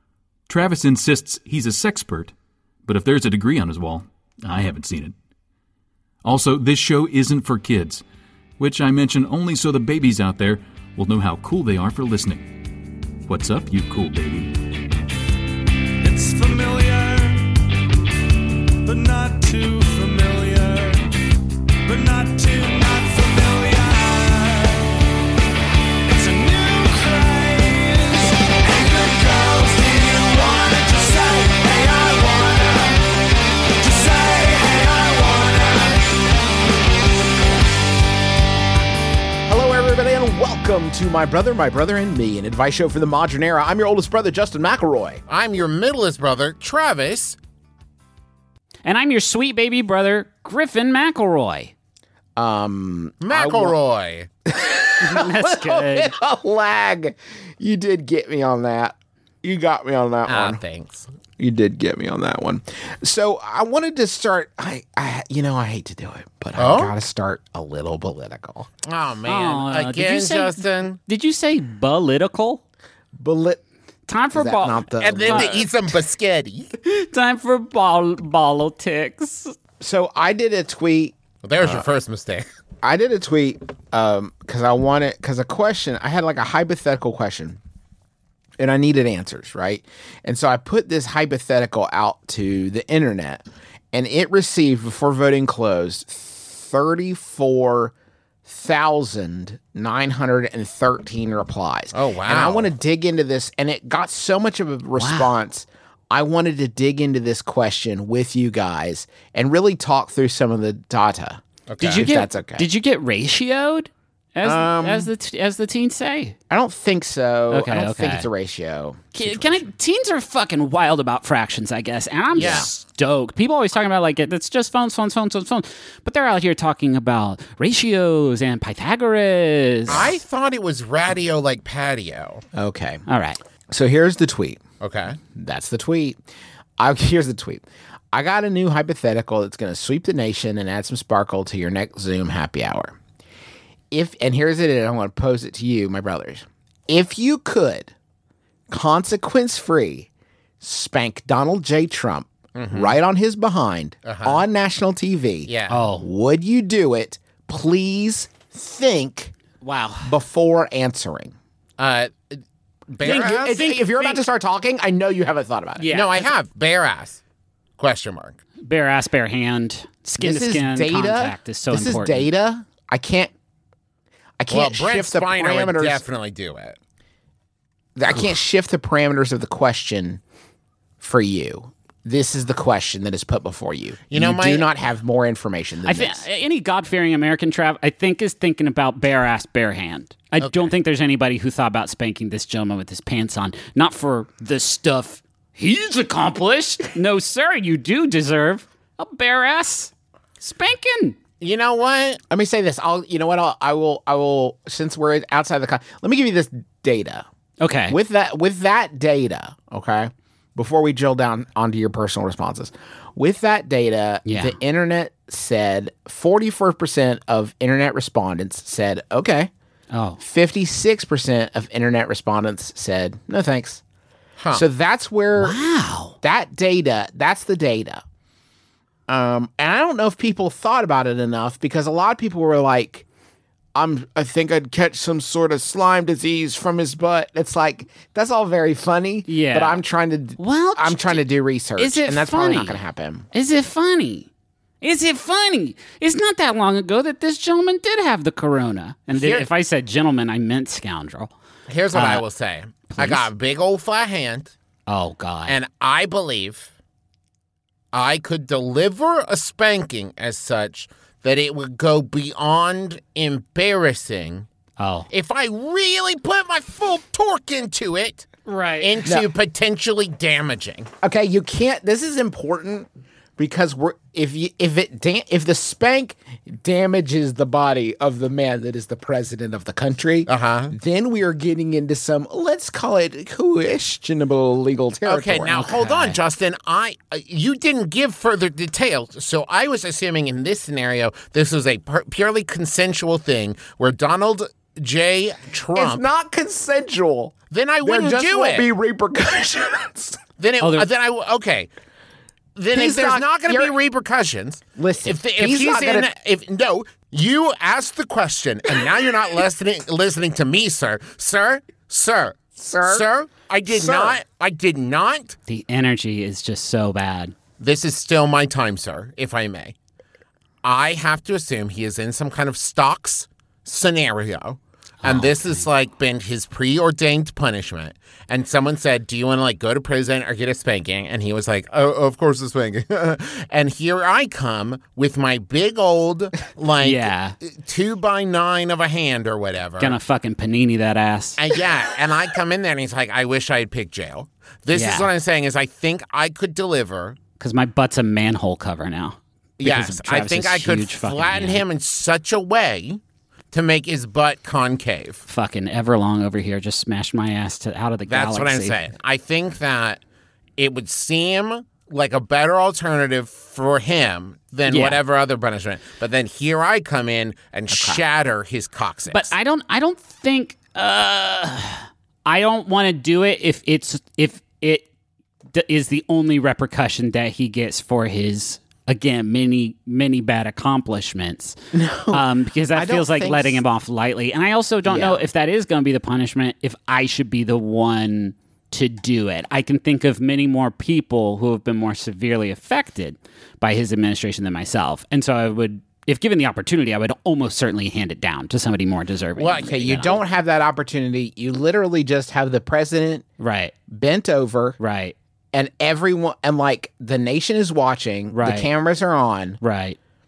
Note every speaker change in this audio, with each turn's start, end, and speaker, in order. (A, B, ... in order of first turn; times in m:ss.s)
0:00.5-0:02.3 A
0:02.8-0:05.2 A
0:06.2-0:08.0 A
0:08.6-0:12.6 A
0:13.2-0:14.6 A
0:15.9-0:25.2 B
0:26.0-0:36.5 B
0:39.4-0:45.2 C
0:45.3-0:47.4 D
0:48.8-0:51.7 E
0:52.4-0:53.8 C
0:53.2-0:54.3 D
0:54.4-1:00.6 C
0:55.0-0:56.1 E
1:00.2-1:01.1 D
1:01.4-1:08.7 C
1:06.6-1:07.0 D
1:08.8-1:11.0 D
1:09.3-1:12.6 E
1:13.1-1:13.6 C
1:14.1-1:15.6 E
1:14.3-1:15.7 C
1:15.0-1:16.7 D
1:16.8-1:19.5 E
1:19.8-1:21.8 C
1:21.4-1:22.5 D
1:22.8-1:27.6 C
1:28.6-1:37.9 C
1:38.4-1:52.7 C
1:41.9-1:42.7 D
1:45.0-1:45.3 E
1:51.7-1:52.0 D
1:51.8-1:56.4 E
1:54.4-1:55.1 C
1:56.5-1:59.7 C
1:57.5-1:58.3 E
1:59.1-2:10.1 E
2:02.4-2:02.7 C
2:02.4-2:02.7 D
2:09.9-2:12.4 D
2:12.5-2:13.0 C
2:13.1-2:13.4 E
2:13.7-2:14.6 C
2:14.8-2:15.2 D
2:15.3-2:16.2 C
2:16.8-2:23.0 C
2:23.9-2:27.9 C
2:28.7-2:30.1 C
2:30.6-2:39.3 C
2:32.5-2:33.0 D
2:34.0-2:34.4 D
2:35.4-2:35.8 D
2:35.7-2:36.1 E
2:39.6-2:40.1 E
2:40.0-2:41.3 C
2:41.8-2:43.7 D
2:43.0-2:45.9 C
2:43.5-2:44.2 E
2:45.8-2:46.3 E
2:45.9-2:47.2 D
2:47.8-2:48.4 D
2:48.6-2:52.3 E
2:50.2-2:53.3 C
2:54.4-2:56.0 C
2:54.5-2:56.8 D
2:58.0-3:00.2 C
3:01.0-3:06.2 C
3:04.1-3:04.7 D
3:05.8-3:21.2 E
3:10.4-3:10.7 D
3:21.4-3:22.2 D
3:22.3-3:27.2 C
3:27.6-3:28.0 E
3:27.9-3:39.5 C
3:34.2-3:34.6 E
3:39.9-3:40.2 E
3:40.2-3:43.8 C
3:44.4-3:44.6 D
3:44.5-3:45.6 C
3:45.4-3:46.2 E
3:46.2-3:48.0 C
3:49.1-3:53.0 C
3:53.7-4:03.3 C
3:59.2-3:59.8 E
4:00.4-4:01.2 E
4:01.8-4:02.8 E
4:03.3-4:04.3 E
4:04.8-4:11.3 E
4:09.1-4:09.5 D
4:11.7-4:14.5 D
4:11.9-4:12.2 E
4:12.9-4:13.3 E
4:14.9-4:15.6 E
4:15.5-4:16.7 D
4:17.9-4:24.5 D
4:24.8-4:25.1 E
4:25.1-4:30.9 D
4:28.5-4:29.0 E
4:31.0-4:45.7 C
4:40.2-4:40.7 D
4:45.0-4:56.0 D
4:45.4-4:46.2 E
4:55.7-5:00.2 C
4:57.5-4:58.7 D
5:00.4-5:01.7 D
5:00.6-5:00.9 E
5:02.6-5:15.4 D
5:02.7-5:03.7 C
5:04.8-5:06.1 C
5:12.6-5:13.1 C
5:13.7-5:14.2 C
5:15.5-5:17.3 E
5:17.6-5:19.7 D
5:20.6-5:40.0 D
5:25.0-5:25.6 E
5:36.8-5:37.4 E
5:39.8-5:41.4 E
5:41.4-5:47.2 D
5:44.7-5:45.1 E
5:47.4-5:51.6 E
5:49.6-5:53.0 D
5:53.5-5:55.2 D
5:55.3-5:58.8 E
5:58.1-6:00.0 D
6:00.6-6:09.3 D
6:04.7-6:05.0 E
6:07.7-6:08.0 C
6:09.1-6:14.9 E
6:15.5-6:21.6 E
6:21.7-6:23.6 C
6:22.1-6:40.1 E
6:24.8-6:25.3 C
6:39.4-6:40.2 D
6:39.6-6:43.2 C
6:43.4-6:43.7 E
6:43.9-6:44.8 C
6:44.8-6:45.1 E
6:45.5-6:49.6 C
6:48.3-6:48.7 E
6:49.6-6:50.0 E